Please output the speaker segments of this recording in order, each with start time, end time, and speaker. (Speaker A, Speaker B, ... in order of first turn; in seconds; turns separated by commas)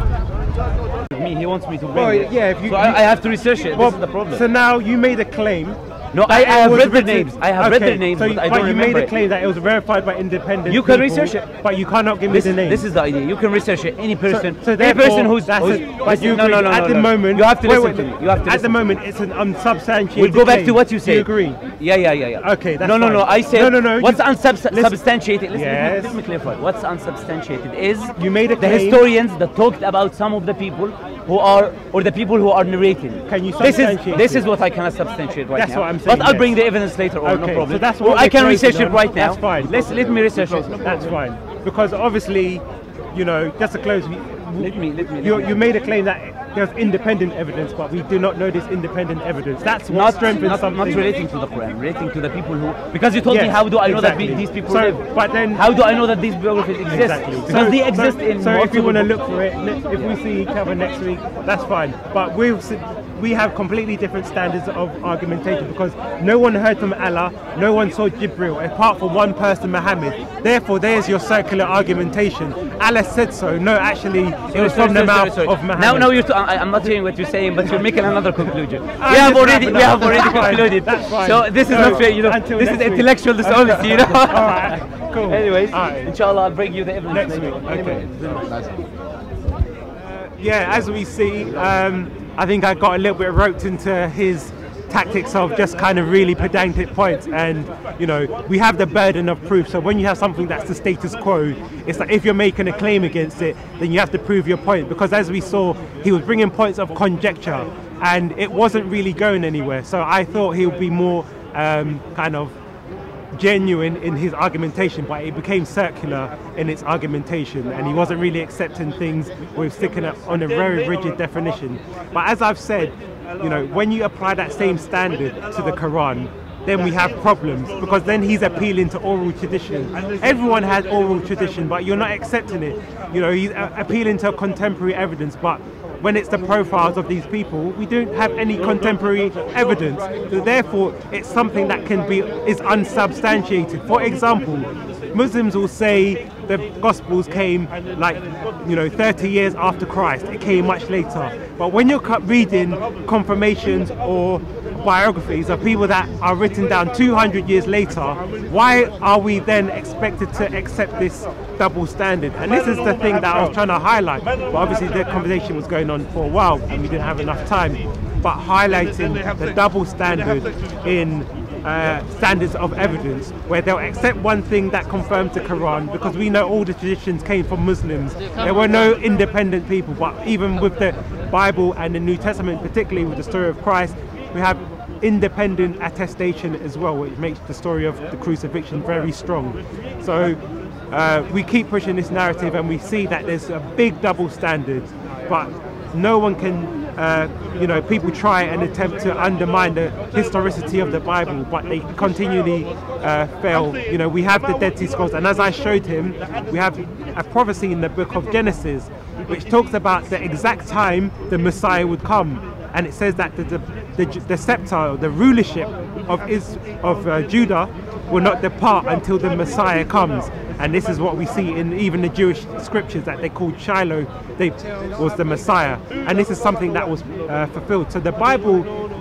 Speaker A: 1.1-4.4, Speaker B: 1.9-3.1, Speaker B: 3.7-12.8, Speaker A: 6.1-9.1, Speaker A: 10.7-11.5, Speaker A: 12.3-18.8, Speaker B: 14.2-21.6, Speaker A: 20.1-41.1, Speaker B: 22.4-25.0, Speaker B: 25.5-26.2, Speaker B: 28.2-29.0, Speaker B: 33.3-34.5, Speaker B: 35.5-36.5, Speaker B: 37.2-51.1, Speaker C: 39.8-41.2, Speaker A: 44.6-45.7, Speaker A: 49.9-59.1, Speaker B: 53.3-55.6, Speaker B: 56.9-76.2, Speaker A: 74.5-88.5, Speaker B: 78.9-86.1, Speaker C: 81.7-82.1, Speaker B: 87.1-88.1, Speaker C: 88.2-89.0, Speaker B: 90.2-112.5, Speaker C: 90.7-91.7, Speaker B: 113.3-190.4, Speaker B: 190.9-228.7